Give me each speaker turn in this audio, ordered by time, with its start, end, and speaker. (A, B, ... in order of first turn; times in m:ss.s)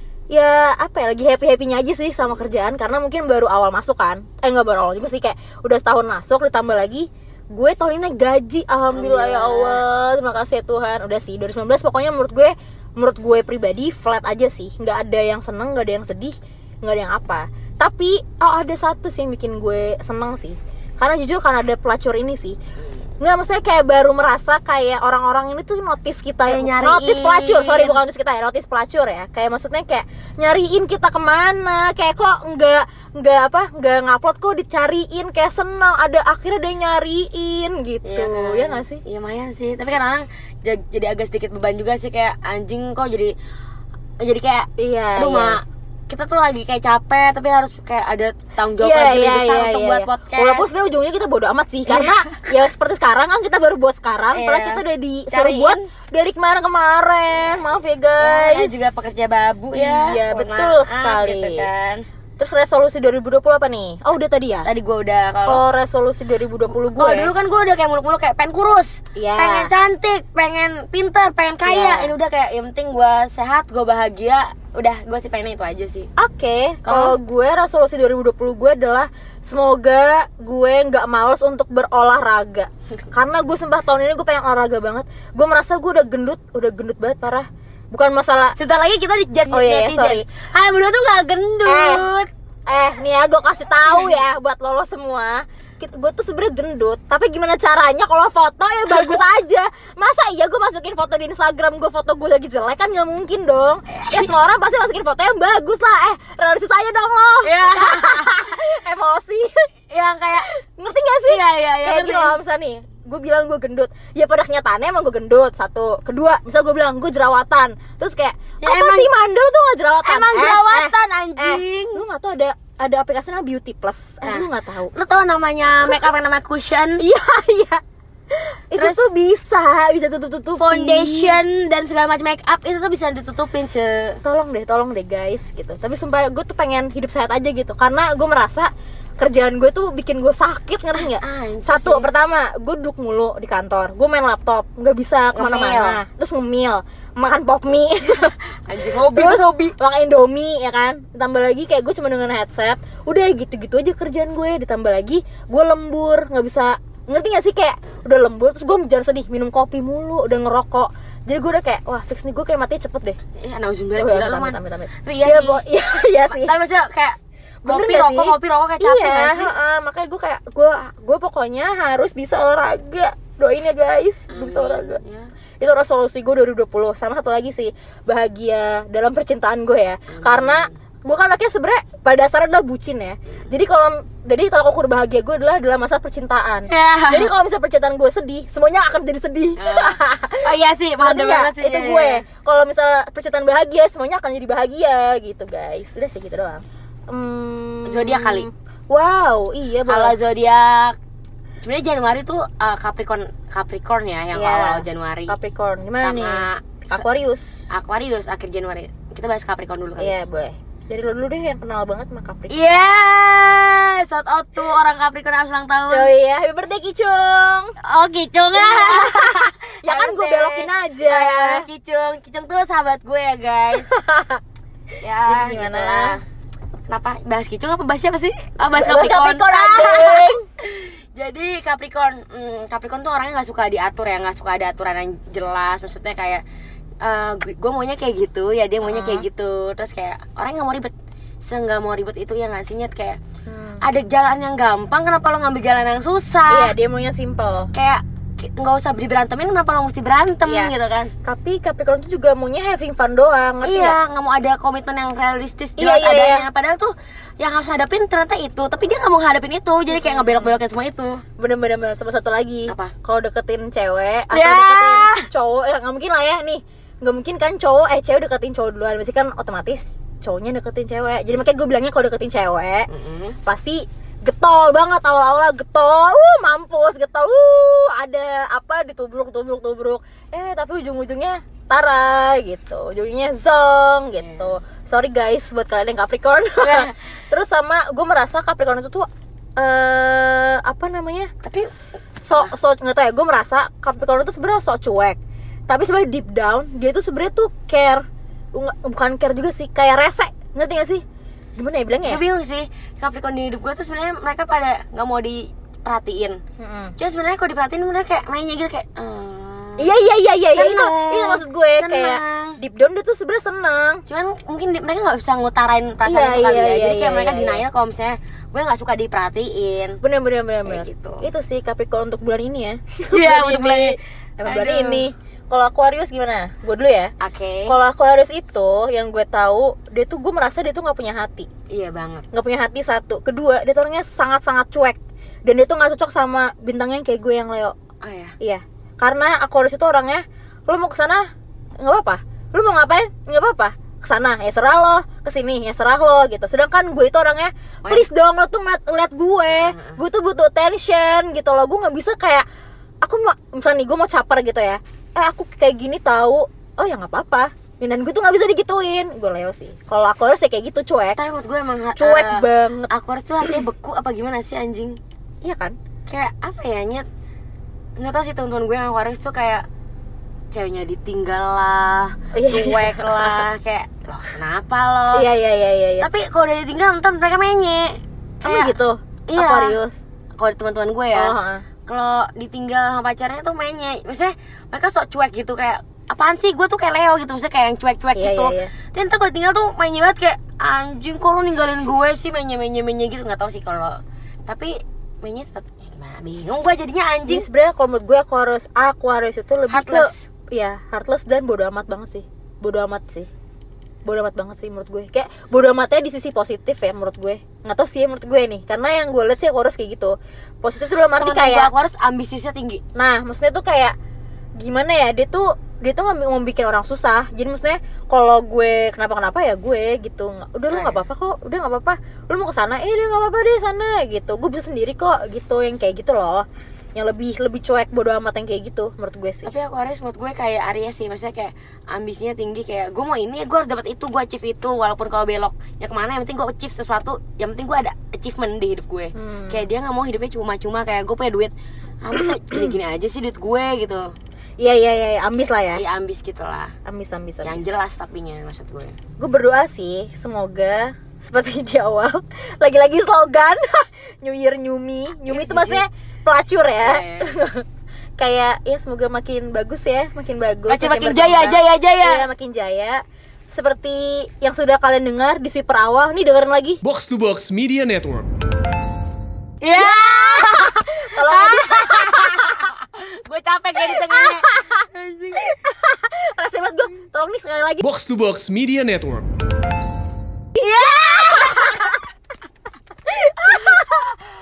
0:00.3-0:22.6 A
0:08.9-0:09.8 B
0:23.2-0:39.0 A
0:26.5-0:28.0 B
0:38.0-0:43.4 B
0:44.2-0:50.7 B
0:44.8-0:45.6 A
0:48.8-0:58.8 A
0:51.9-0:52.5 B
0:54.3-0:55.9 B
0:58.2-1:02.1 B
0:59.7-1:01.7 A
1:02.4-1:04.7 A
1:04.6-1:05.6 B
1:05.4-1:07.3 A
1:06.7-1:16.1 B
1:09.2-1:09.7 A
1:11.6-1:12.1 A
1:16.2-1:28.6 A
1:16.8-1:17.2 B
1:28.6-1:32.3 B
1:29.5-1:30.2 A
1:31.6-1:32.1 A
1:32.7-1:49.6 A
1:38.9-1:39.2 B
1:47.4-1:48.4 B
1:49.9-1:50.5 B
1:50.4-2:04.9 A
1:51.3-1:52.4 B
1:58.6-1:59.1 B
2:00.0-2:02.0 B
2:04.2-2:07.0 B
2:07.0-2:07.8 A
2:08.3-2:11.4 A
2:08.8-2:09.1 B
2:10.6-2:14.2 B
2:14.2-2:43.2 A
2:21.0-2:22.1 B
2:25.4-2:26.0 B
2:28.7-2:29.7 B
2:43.4-2:45.6 B
2:44.0-2:46.6 A
2:46.3-2:49.5 B
2:47.6-2:55.0 A
2:54.3-2:55.3 B
2:55.6-3:20.2 A
3:00.1-3:00.7 B
3:06.7-3:07.3 B
3:09.6-3:12.3 B
3:17.9-3:18.5 B
3:19.9-3:21.0 B
3:21.6-3:25.3 B
3:24.3-3:27.6 A
3:26.0-3:27.0 B
3:27.7-3:30.2 B
3:30.0-3:32.8 A
3:32.5-3:36.1 B
3:35.9-3:37.7 A
3:37.8-3:43.9 B
3:38.5-3:41.7 A
3:43.8-3:44.4 A
3:45.0-3:46.2 B
3:45.2-3:46.2 A
3:46.9-3:56.4 B
3:48.7-3:50.4 A
3:57.0-4:03.2 B
3:58.8-3:59.3 A
4:03.5-4:03.8 A
4:03.8-4:06.7 B
4:06.5-4:07.7 A
4:07.7-4:11.1 B
4:10.4-4:10.7 A
4:11.2-4:14.0 A
4:13.6-4:21.2 B
4:15.8-4:16.5 A
4:19.9-4:20.6 A
4:21.4-4:32.9 A
4:22.7-4:22.9 B
4:24.3-4:25.3 B
4:32.9-4:33.4 B
4:33.4-4:51.3 A
4:44.2-4:44.5 B
4:46.6-4:47.0 B
4:51.4-4:51.8 B
4:52.2-5:01.0 A
5:01.6-5:02.2 A
5:02.0-5:06.4 B
5:06.6-5:07.0 A
5:07.0-5:09.9 B
5:09.8-5:14.0 A
5:10.5-5:12.6 B
5:14.1-5:20.0 B
5:16.0-5:17.6 A
5:20.0-5:27.1 A
5:20.7-5:21.3 B
5:23.0-5:25.1 B
5:27.2-5:27.8 B
5:27.7-5:31.5 A
5:31.7-5:32.2 B
5:32.3-5:37.8 A
5:38.0-5:38.4 B
5:38.4-5:41.3 A
5:41.8-5:52.4 A
5:49.5-5:50.0 B
5:53.0-6:01.2 A
6:01.2-6:05.0 B
6:02.0-6:02.9 A
6:05.4-6:05.8 A
6:06.1-6:07.1 B
6:08.0-6:09.7 B
6:10.5-6:15.3 B
6:12.3-6:13.4 A
6:15.1-6:16.1 A
6:16.0-6:18.7 B
6:18.4-6:20.0 A
6:19.3-6:19.8 B
6:20.4-6:37.5 B
6:21.1-6:21.6 A
6:28.2-6:28.7 A
6:37.3-6:43.3 A
6:39.7-6:40.3 B
6:44.1-6:51.7 A
6:51.2-6:52.8 B
6:53.0-6:54.0 A
6:54.6-7:09.5 A
7:00.7-7:01.0 B
7:09.5-7:24.1 B
7:19.2-7:19.7 A
7:22.1-7:22.7 A
7:24.6-7:25.8 A
7:25.7-7:26.7 B
7:26.9-7:27.8 A
7:27.4-7:29.0 B
7:29.2-7:37.6 A
7:35.3-7:35.8 B
7:36.8-7:37.3 B
7:38.2-7:46.8 A
7:40.7-7:42.3 B
7:46.8-7:48.3 C
7:49.6-7:55.4 B
7:49.7-7:52.6 A
7:54.0-7:54.7 A
7:55.4-7:57.8 A
7:57.8-7:59.3 C
8:00.6-8:01.9 B
8:00.6-8:02.0 A
8:03.1-8:04.2 A